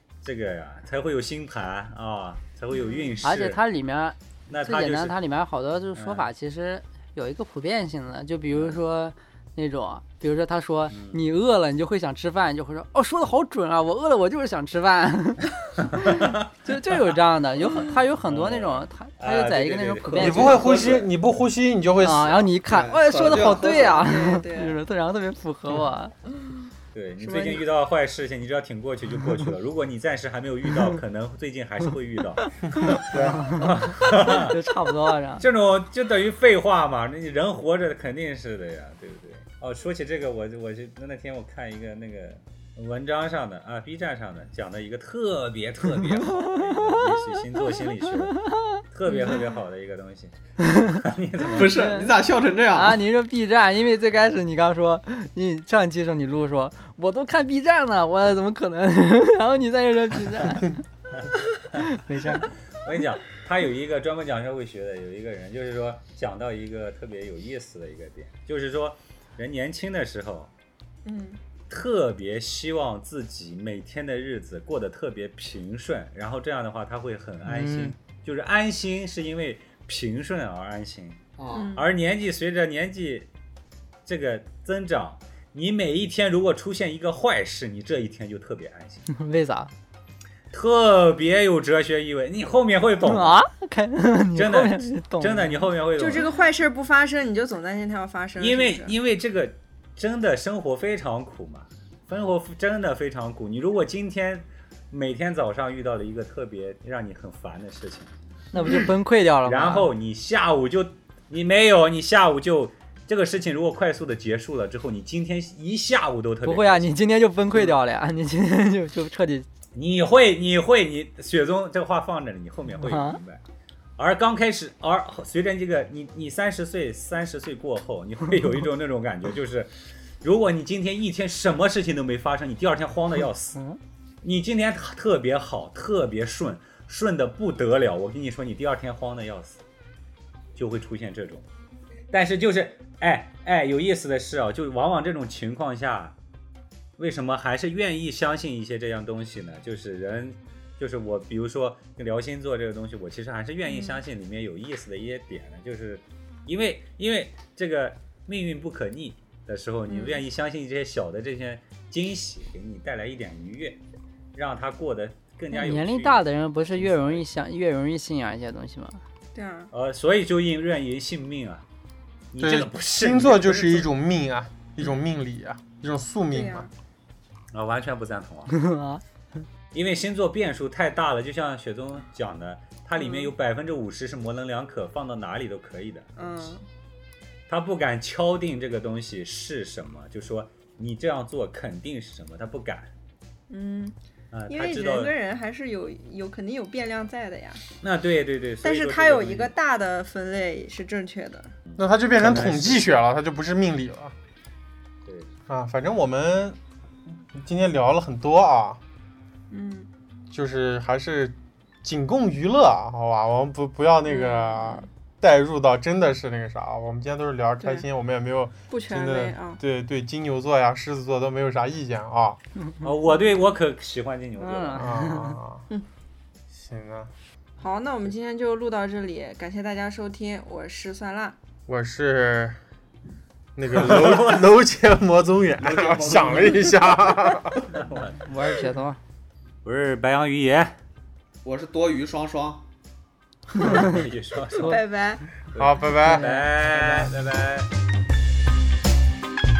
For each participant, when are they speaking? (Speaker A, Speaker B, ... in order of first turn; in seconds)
Speaker A: 0.2-3.6, 4.5-5.2, 5.9-6.3, 8.5-8.8, 10.9-11.2, 15.9-16.4, 18.2-21.1, 26.9-34.7, 35.4-51.8, 61.2-70.5, 71.7-81.2, 81.7-83.3, 84.0-89.0, 90.5-93.4, 94.3-96.3, 98.4-108.1, 109.4-117.0, 119.7-123.4, 124.0-133.6, 134.2-139.6, 140.6-141.4, 142.1-146.1, 147.0-163.8, 164.3-167.2, 169.7-171.6, 172.3-173.9, 177.5-178.5, 179.7-186.5, 187.5-192.9, 194.3-195.1, 197.8-199.5, 201.7-202.9, 222.8-224.9, 233.7-234.6, 237.7-238.2, 239.6-240.8, 243.5-244.8, 245.5-247.7
Speaker B: 2.7-3.2, 23.6-24.8, 27.2-27.6, 49.0-49.4, 71.0-71.4, 81.5-81.9, 96.0-98.9, 153.6-154.0, 159.9-160.2, 169.3-169.7, 176.3-176.7, 183.0-183.3, 186.2-186.6, 193.5-193.9, 194.5-197.6, 198.6-201.5, 209.5-209.9, 214.1-214.8, 217.6-217.8, 218.7-219.6, 227.6-231.4, 244.6-245.2
Speaker C: 3.2-20.9, 22.0-26.1, 32.4-35.5, 46.0-47.3, 48.1-49.4, 50.6-51.0, 51.6-52.1, 52.7-60.8, 61.8-62.5, 77.4-78.0, 89.1-89.7, 93.0-95.7, 108.5-109.9, 116.4-119.5, 122.8-123.2, 165.5-169.0, 178.5-179.0, 224.4-225.4, 238.2-239.0, 243.5-244.8, 245.9-247.1
Speaker D: 20.1-22.5, 172.4-176.7, 201.8-204.1, 205.5-206.6, 207.3-208.8, 210.3-222.4, 224.8-225.6, 226.5-227.1, 231.7-232.6, 233.6-237.6, 245.6-246.3
Speaker E: 20.2-21.1, 22.6-24.1, 33.1-33.5, 51.5-53.0, 81.4-81.7, 235.6-236.8, 241.4-242.6